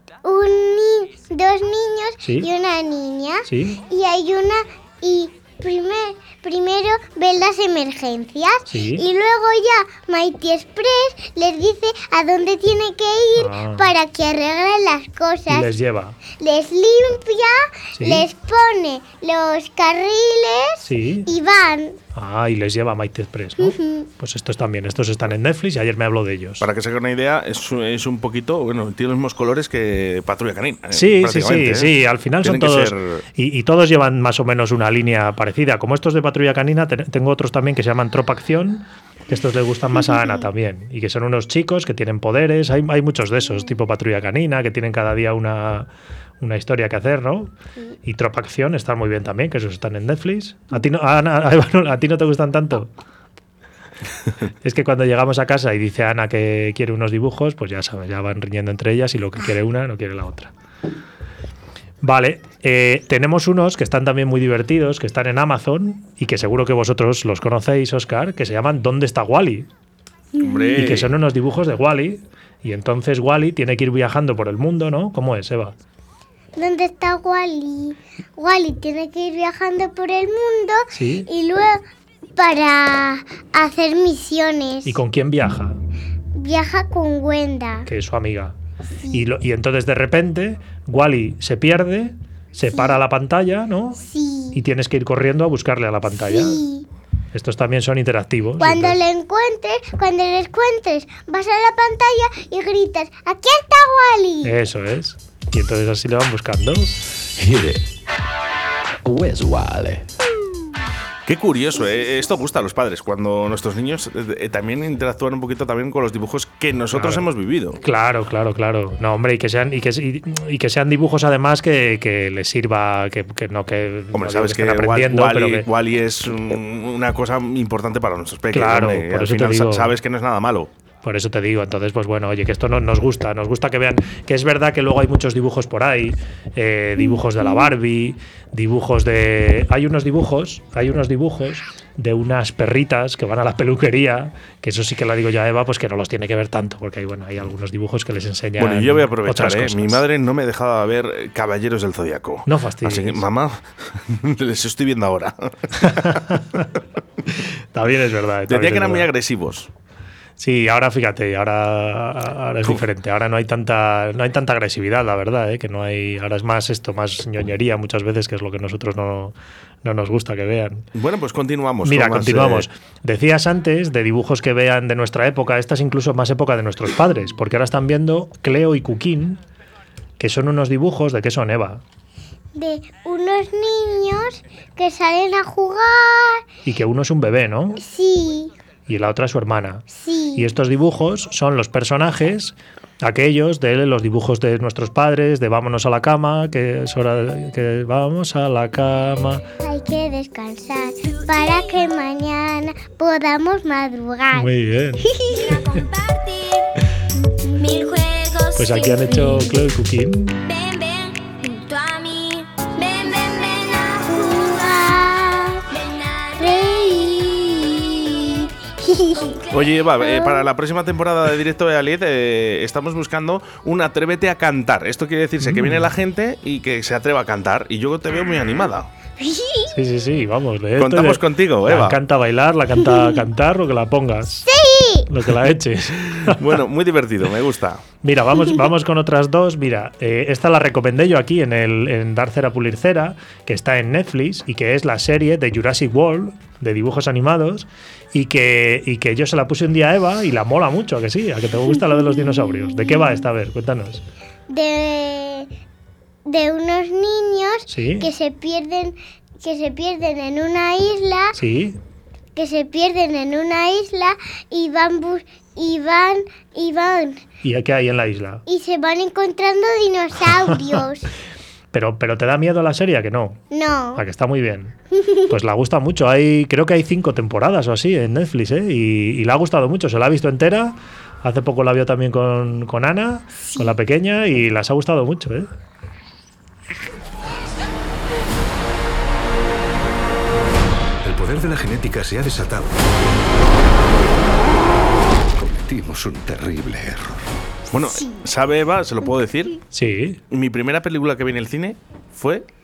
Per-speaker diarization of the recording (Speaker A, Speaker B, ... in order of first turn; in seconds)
Speaker A: 0.2-15.7, 16.3-22.0, 23.6-24.1, 70.4-70.8, 76.6-81.8, 82.4-85.0, 86.3-87.9, 92.7-93.0, 94.0-94.6, 96.3-96.9, 98.6-104.6, 182.6-186.4, 187.8-188.5, 189.9-190.5, 199.6-204.5, 205.1-205.4, 207.2-207.9, 214.1-215.7, 216.4-219.4, 220.0-220.4, 229.2-229.7, 234.5-235.1, 252.2-253.2, 254.5-255.5, 256.3-261.4, 262.4-267.2, 268.5-271.1, 273.5-274.0, 274.9-275.3
Speaker B: 2.2-2.5, 3.5-3.8, 8.7-9.0, 13.4-13.9, 15.5-16.2, 17.9-18.2, 20.8-21.3, 22.1-26.7, 30.9-45.9, 46.4-47.5, 48.0-52.9, 54.6-60.5, 62.0-69.7, 70.8-75.8, 80.9-81.3, 84.8-85.8, 87.9-88.5, 89.1-94.0, 94.5-96.6, 97.3-99.0, 104.4-107.0, 116.9-117.3, 117.8-125.7, 128.5-130.0, 131.0-150.0, 152.5-153.3, 155.8-156.7, 157.3-159.1, 160.4-170.9, 171.8-179.4, 180.2-181.8, 186.7-187.8, 188.9-189.8, 190.4-199.4, 204.3-205.2, 208.6-210.4, 225.4-225.9, 229.7-234.5, 235.1-236.4, 238.0-254.0, 257.7-258.1, 261.4-261.8, 267.4-268.4, 271.7-273.4, 273.9-274.8, 275.3-285.5, 299.7-300.2
Speaker C: 26.6-33.2, 70.4-71.2, 111.3-117.8, 124.1-130.7, 148.6-156.2, 158.5-159.7, 170.9-172.7, 219.5-228.9, 230.8-232.0, 236.0-237.8, 297.7-299.6, 300.3-302.5
Speaker D: 107.4-107.8, 109.0-110.1, 291.0-292.9, 295.3-297.2
Speaker E: 201.1-201.7, 205.3-206.7, 207.6-209.5, 210.4-214.5, 215.7-216.7, 219.2-219.6